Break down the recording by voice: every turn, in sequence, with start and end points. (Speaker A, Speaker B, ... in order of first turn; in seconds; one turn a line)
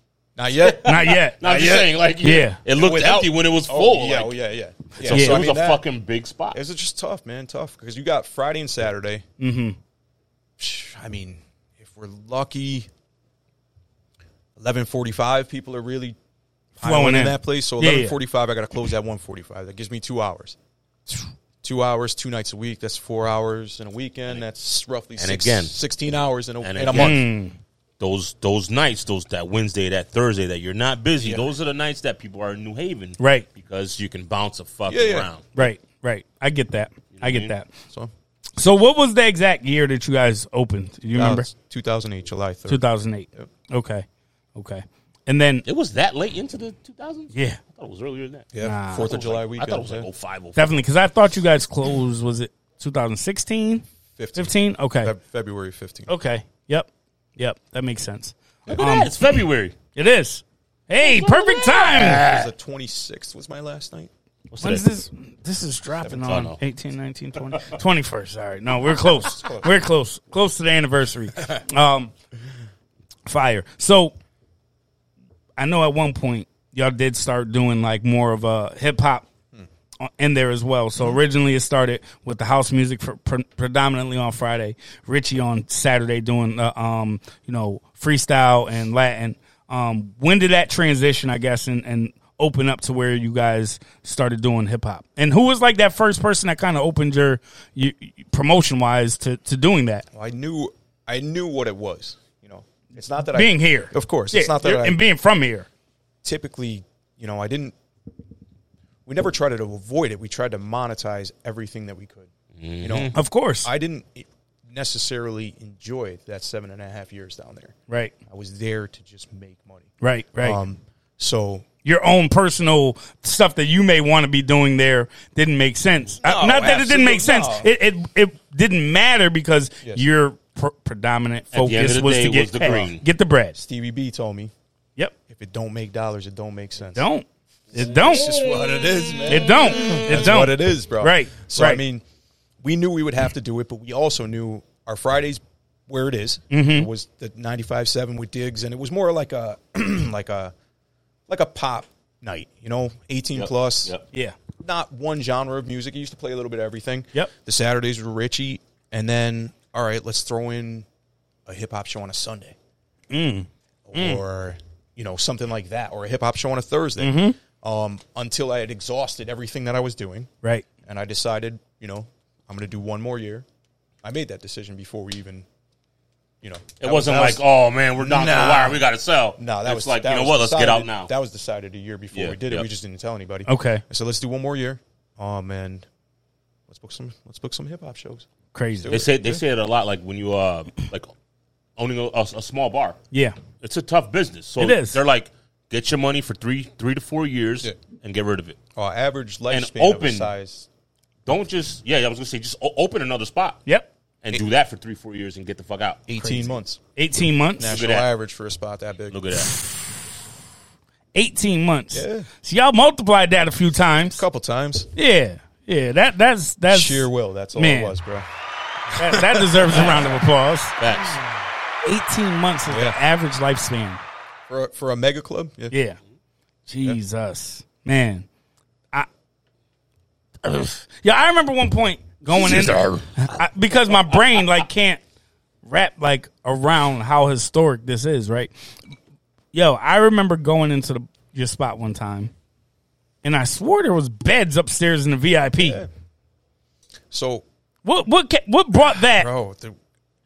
Speaker A: 0.3-2.0
Speaker B: 0.6-4.4
Speaker C: 0.8-1.4
Speaker C: 2.2-2.6
Speaker A: 2.7-5.8
Speaker B: 5.0-6.6
Speaker C: 5.0-5.5
Speaker A: 6.5-9.2
Speaker C: 9.4-9.8
Speaker A: 10.6-12.9
Speaker A: 14.6-16.1
Speaker A: 16.8-20.6
Speaker C: 16.8-18.1
Speaker A: 21.1-27.2
Speaker B: 25.2-25.9
Speaker B: 26.6-27.2
Speaker C: 26.9-27.6
Speaker B: 28.0-35.5
Speaker A: 31.2-31.5
Speaker C: 33.2-33.5
Speaker A: 34.9-35.7
Speaker C: 35.5-37.7
Speaker B: 37.1-37.5
Speaker C: 38.6-41.5
Speaker A: 41.1-42.8
Speaker C: 42.7-45.6
Speaker B: 45.6-48.5
Speaker C: 47.3-47.6
Speaker A: 48.5-50.1
Speaker C: 48.6-49.1
Speaker B: 49.0-50.8
Speaker C: 50.5-53.8
Speaker A: 54.2-56.1
Speaker C: 54.4-55.1
Speaker C: 56.1-59.2
Speaker B: 58.7-59.8
Speaker C: 59.9-62.3
Speaker B: 61.0-62.5
Speaker A: 61.9-64.1
Speaker B: 64.5-64.9
Speaker C: 64.6-72.1
Speaker B: 66.2-66.6
Speaker A: 68.9-69.7
Speaker C: 73.2-74.1
Speaker C: 75.6-79.2
Speaker C: 80.0-100.0
Speaker A: 100.1-105.0
Speaker C: 103.3-105.7
Speaker A: 106.2-107.7
Speaker A: 109.0-113.1
Speaker B: 112.6-113.1
Speaker C: 113.1-113.7
Speaker A: 113.6-117.8
Speaker C: 117.9-118.1
Speaker A: 118.3-121.7
Speaker C: 120.0-120.6
Speaker C: 121.8-133.6
Speaker A: 126.2-127.7
Speaker B: 131.5-133.0
Speaker A: 133.6-134.5
Speaker A: 135.3-137.1
Speaker C: 136.9-138.4
Speaker A: 137.7-142.0
Speaker B: 138.1-140.1
Speaker C: 139.3-141.8
Speaker A: 142.6-150.5
Speaker C: 146.5-146.9
Speaker A: 151.3-153.9
Speaker B: 153.3-154.0
Speaker A: 154.6-160.8
Speaker A: 161.4-162.6
Speaker C: 163.1-164.2
Speaker A: 163.9-170.3
Speaker C: 167.0-167.4
Speaker A: 170.8-173.4
Speaker A: 174.0-175.4
Speaker A: 176.4-177.4
Speaker B: 176.8-181.1
Speaker A: 178.0-178.8
Speaker A: 179.4-185.9
Speaker B: 182.1-182.7
Speaker C: 183.4-183.8
Speaker A: 186.7-188.3
Speaker C: 188.5-189.0
Speaker A: 188.8-189.4
Speaker B: 188.9-191.1
Speaker B: 191.8-193.0
Speaker C: 193.1-193.4
Speaker B: 193.6-198.6
Speaker C: 194.6-195.0
Speaker A: 198.7-200.7
Speaker B: 199.5-200.3
Speaker B: 201.2-203.6
Speaker B: 204.2-206.5
Speaker A: 206.1-206.8
Speaker C: 206.9-207.7
Speaker A: 207.6-209.2
Speaker B: 207.7-208.1
Speaker B: 209.1-209.5
Speaker C: 209.5-209.9
Speaker C: 211.1-214.2
Speaker A: 211.9-212.3
Speaker A: 214.1-214.9
Speaker C: 214.9-217.9
Speaker A: 216.7-218.2
Speaker A: 218.9-220.1
Speaker C: 218.9-220.7
Speaker B: 220.8-221.2
Speaker C: 221.8-224.0
Speaker A: 222.7-223.0
Speaker A: 224.5-225.7
Speaker C: 225.7-226.0
Speaker C: 226.7-228.2
Speaker C: 230.4-235.0
Speaker B: 232.3-233.1
Speaker C: 235.6-238.5
Speaker C: 239.5-242.3
Speaker C: 243.2-245.8
Speaker A: 245.6-245.9
Speaker A: 247.1-247.4
Speaker C: 247.8-249.3
Speaker A: 248.9-249.8